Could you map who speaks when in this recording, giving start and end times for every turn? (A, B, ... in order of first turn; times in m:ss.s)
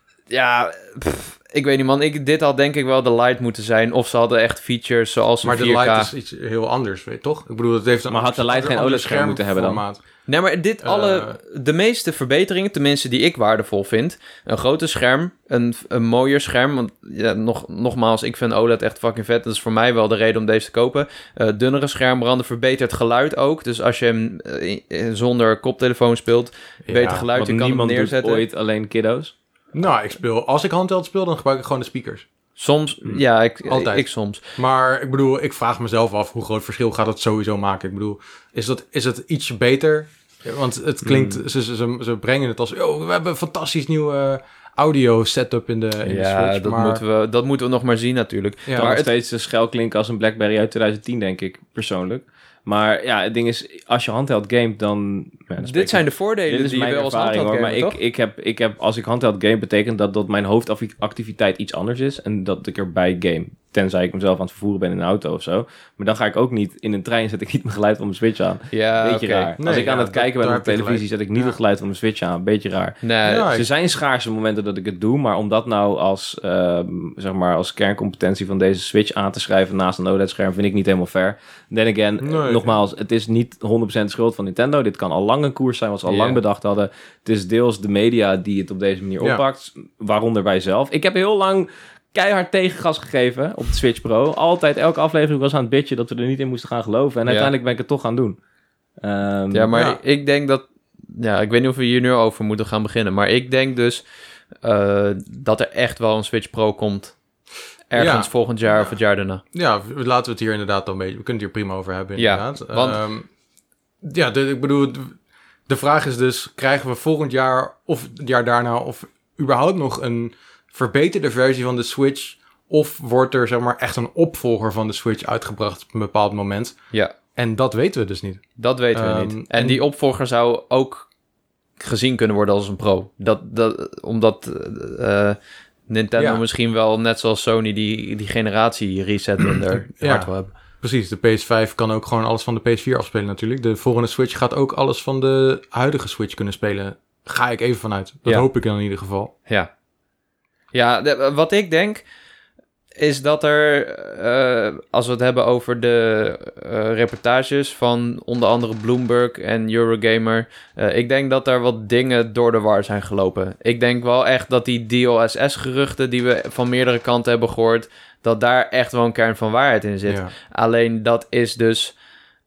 0:00.3-0:06.1 A
0:05.4-0:10.0 B
0:08.1-0:09.8 C
0:10.3-0:28.4 A
0:10.8-0:11.4 B
0:26.9-0:27.2 B
0:27.3-0:29.3 C
0:29.7-0:32.2 B
0:32.6-0:34.4 A
0:33.7-0:47.0 B
0:41.0-0:41.4 C
0:46.0-0:49.1 A
0:48.8-1:38.4 C
0:55.6-0:58.0 A
1:08.7-1:09.5 A
1:09.6-1:11.6 B
1:13.0-1:13.5 A
1:13.2-1:13.7 B
1:22.2-1:22.8 B
1:26.1-1:26.4 A
1:37.3-1:37.5 A
1:39.0-1:39.7 C
1:39.5-1:44.0 A
1:39.7-1:40.0 B
1:44.6-1:47.2 A
1:47.9-1:49.4 A
1:48.0-1:49.0 B
1:49.5-1:53.3 B
1:52.2-1:53.0 A
1:54.0-1:55.2 B
1:55.7-2:06.8 B
2:07.4-2:09.8 B
2:08.6-2:11.1 A
2:11.8-2:20.5 A
2:16.2-2:16.4 B
2:20.0-2:29.3 B
2:30.7-2:32.0 A
2:33.0-2:52.0 A
2:50.1-2:50.3 B